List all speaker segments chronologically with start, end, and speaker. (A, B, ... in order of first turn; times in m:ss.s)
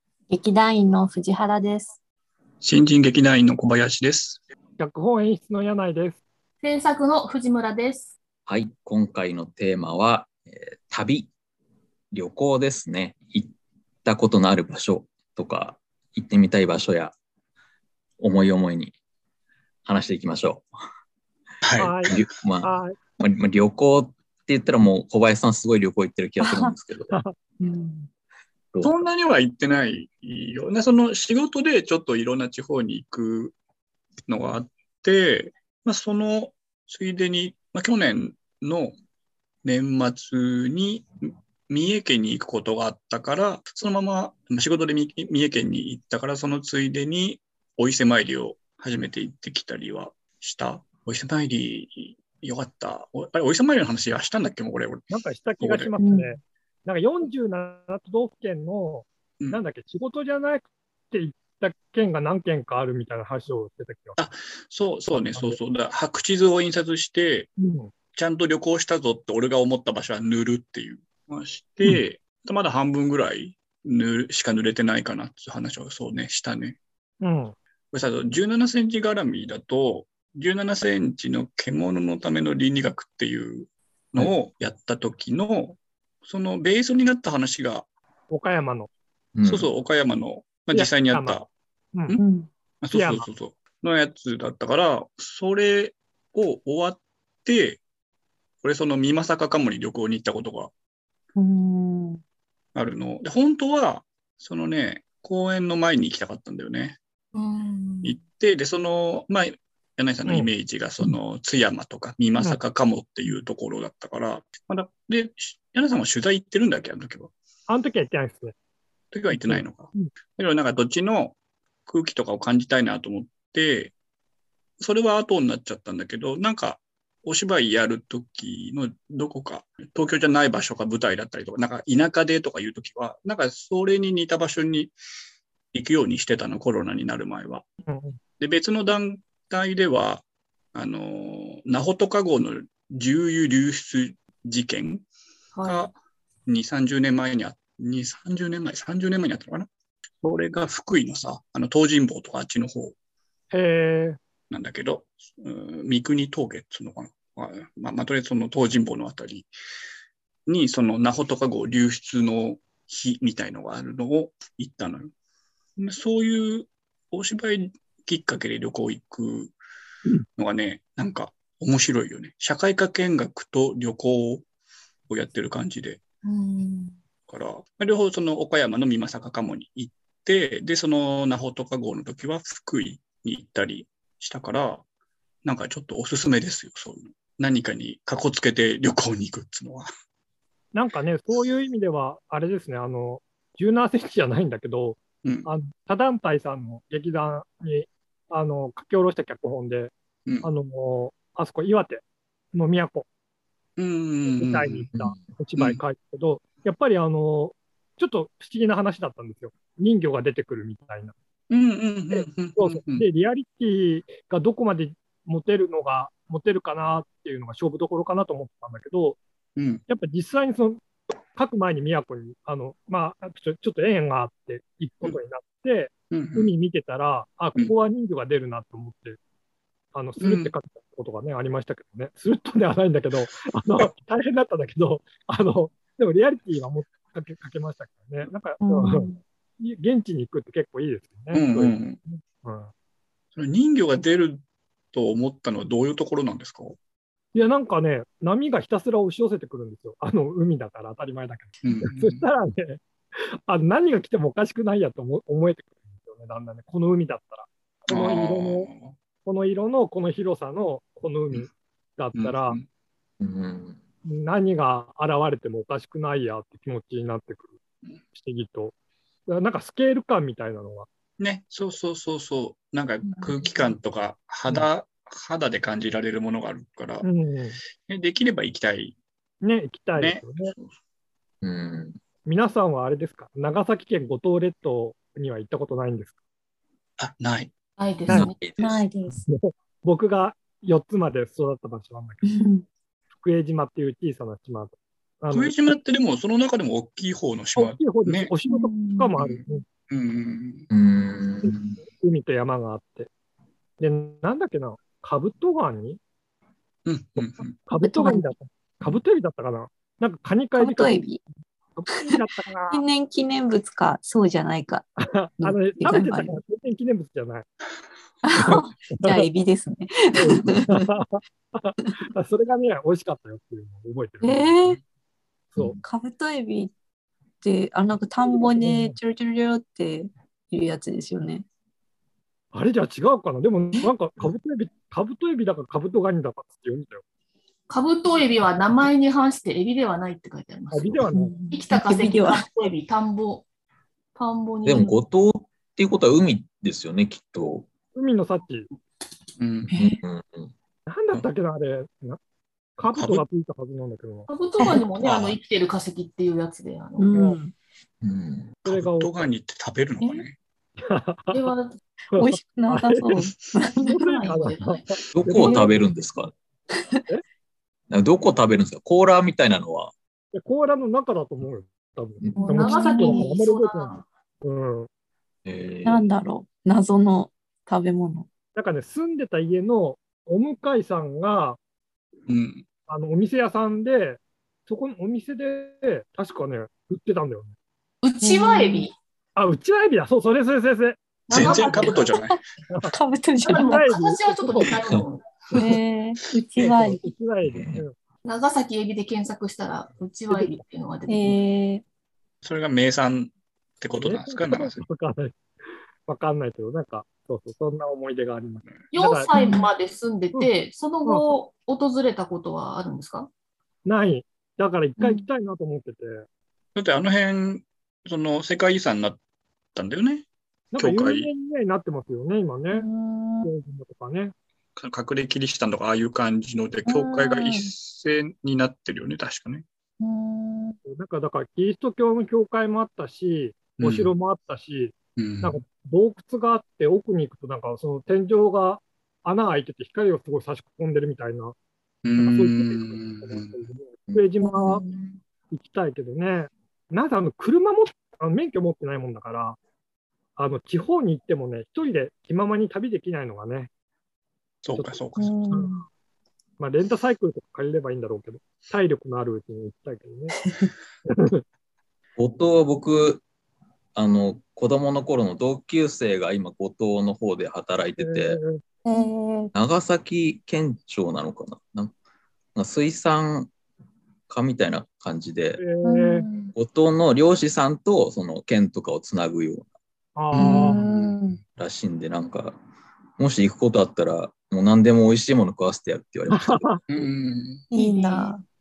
0:00.3-0:02.0 A
0:02.6-0:04.4 B
0:04.8-0:06.2 C
0:06.6-0:08.1 D
0:08.5-0:11.3 E
0:12.1-0:13.5 E
0:14.0-0:17.1 E
0:18.2-0:18.9 E
0:19.8-0:20.7 E
0:21.6-0:22.1 B
0:21.8-0:23.0 C
0:22.1-0:27.1 E
0:26.4-0:26.8 A
0:27.6-0:28.1 A
0:28.8-0:33.5 B
0:34.3-0:38.9 B
0:39.6-0:41.0 B
0:41.7-0:55.9 B
0:55.1-1:04.2 C
0:56.0-0:56.4 A
1:04.2-1:07.5 B
1:05.1-1:05.6 C
1:07.6-1:07.9 C
1:08.1-1:16.8 B
1:17.2-1:17.6 C
1:17.9-1:27.9 B
1:28.3-1:28.9 C
1:29.4-1:29.7 E
1:29.4-1:31.5 B
1:30.7-1:31.4 C
1:31.9-1:32.2 C
1:32.2-1:32.5 A
1:32.8-1:37.8 B
1:32.9-1:33.2 C
1:38.6-1:40.7 B
1:41.4-1:42.2 A
1:42.8-1:47.0 B
1:47.3-1:48.2 D
1:48.0-1:57.3 B
1:57.7-1:58.6 C
1:59.1-2:03.9 B
1:59.3-2:00.1 C
2:04.8-2:14.9 B
2:15.7-2:17.6 B
2:17.9-2:18.2 C
2:18.4-2:25.0 B
2:25.5-2:25.9 D
2:25.6-2:25.9 B
2:26.5-2:29.7 B
2:30.2-2:32.9 B
2:33.5-2:34.2 C
2:34.5-2:39.5 B
2:40.5-2:45.1 B
2:45.8-2:49.5 B
2:50.4-2:54.4 B
2:55.1-2:56.0 B
2:56.2-2:57.0 D
2:57.3-3:04.8 B
3:05.4-3:09.9 B
3:10.7-3:23.1 C
3:15.2-3:15.5 B
3:23.8-3:24.9 B
3:24.3-3:31.2 C
3:31.5-3:33.1 B
3:32.1-3:39.2 C
3:39.6-3:39.8 B
3:39.9-3:40.8 C
3:41.3-3:49.2 C
3:46.1-3:46.5 B
3:49.9-4:02.7 C
3:50.2-3:50.5 B
3:58.6-3:59.2 A
4:01.3-4:02.0 B
4:03.3-4:06.8 B
4:07.3-4:12.8 C
4:11.6-4:12.3 B
4:13.5-4:18.7 C
4:17.9-4:18.9 B
4:19.2-4:22.6 C
4:22.1-4:22.6 B
4:23.2-4:23.8 E
4:24.0-4:27.6 C
4:28.1-4:28.8 C
4:29.3-4:30.9 C
4:31.2-4:37.1 B
4:37.0-4:37.6 C
4:37.8-4:38.9 B
4:39.4-4:40.6 C
4:40.0-4:40.8 B
4:41.4-4:42.0 E
4:42.2-4:46.1 C
4:47.0-4:47.5 B
4:47.8-4:48.4 D
4:48.1-4:48.8 E
4:48.2-4:49.2 A
4:49.2-4:52.3 C
4:52.2-4:52.6 A
4:53.2-4:55.7 C
4:55.3-4:58.3 B
4:57.6-4:59.6 C
4:58.5-4:59.1 A
4:59.2-5:00.7 B
5:00.7-5:01.8 E
5:01.4-5:03.1 C
5:03.8-5:06.0 C
5:06.9-5:07.6 B
5:07.2-5:11.1 C
5:07.8-5:08.3 A
5:10.6-5:11.2 A
5:11.8-5:12.8 C
5:11.9-5:14.9 A
5:15.0-5:17.4 C
5:15.4-5:16.4 A
5:18.2-5:20.9 A
5:18.3-5:19.3 C
5:20.1-5:24.6 C
5:24.2-5:24.8 A
5:25.8-5:26.7 A
5:27.4-5:31.4 A
5:28.3-5:29.0 C
5:32.5-5:37.0 C
5:37.7-5:43.4 D
5:40.7-5:41.4 C
5:41.1-5:42.5 A
5:44.1-5:45.0 D
5:44.6-5:47.7 E
5:47.9-5:48.7 C
5:49.4-5:49.7 B
5:49.7-5:50.0 A
5:49.7-5:50.5 E
5:50.9-5:52.2 C
5:52.8-5:54.3 C
5:52.9-5:53.2 B
5:54.3-5:57.2 D
5:55.0-5:55.4 B
5:57.0-5:57.5 A
5:57.1-5:57.4 C
5:58.0-5:58.6 E
5:58.6-6:00.4 B
5:58.6-5:59.3 C
6:00.8-6:01.5 C
6:01.3-6:01.8 D
6:02.1-6:03.2 C
6:02.1-6:04.0 A
6:03.8-6:04.8 D
6:03.9-6:05.7 C
6:05.1-6:06.3 E
6:05.3-6:05.7 A
6:07.9-6:09.9 E
6:10.3-6:14.9 C
6:12.3-6:14.0 D
6:12.4-6:13.3 A
6:15.4-6:16.0 E
6:15.8-6:18.3 A
6:18.6-6:21.6 C
6:22.3-6:22.6 B
6:22.9-6:27.5 C
6:28.0-6:28.9 D
6:28.2-6:28.9 A
6:29.4-6:31.0 C
6:31.3-6:32.1 D
6:31.3-6:32.4 B
6:32.3-6:33.8 A
6:33.4-6:35.6 D
6:33.5-6:34.8 C
6:35.6-6:37.0 A
6:36.6-6:37.9 C
6:37.4-6:37.8 E
6:38.2-6:41.4 D
6:41.1-6:41.8 A
6:42.4-6:44.8 B
6:44.0-6:45.4 C
6:46.1-6:49.6 C
6:48.9-6:53.3 D
6:49.3-6:49.7 A
6:51.0-6:51.3 C
6:53.8-6:56.3 C
6:55.0-6:55.3 A
6:56.8-6:59.2 B
6:59.8-7:01.3 B
7:00.7-7:02.9 C
7:02.7-7:03.5 A
7:03.4-7:04.3 C
7:04.8-7:09.6 B
7:06.9-7:07.7 A
7:10.0-7:10.8 A
7:10.9-7:21.6 C
7:13.8-7:14.1 B
7:15.2-7:15.6 B
7:22.0-7:23.6 B
7:22.2-7:24.8 C
7:24.1-7:24.8 E
7:25.5-7:29.6 C
7:30.4-7:33.7 C
7:34.6-7:35.3 B
7:34.8-7:35.8 C
7:35.2-7:35.8 A
7:36.6-7:40.4 C
7:41.1-7:41.4 C
7:42.2-7:43.2 E
7:43.9-7:48.4 E
7:48.0-7:48.6 C
7:48.8-7:49.5 A
7:49.5-7:51.9 E
7:52.6-7:53.5 E
7:54.3-7:55.6 E
7:55.6-7:56.3 C
7:55.8-7:56.5 A
7:56.5-7:59.7 E
8:00.2-8:00.8 C
8:00.3-8:01.3 B
8:00.4-8:01.4 A
8:01.6-8:02.6 E
8:03.2-8:06.7 E
8:06.3-8:06.8 C
8:06.9-8:07.6 B
8:07.7-8:08.4 A
8:07.8-8:08.3 D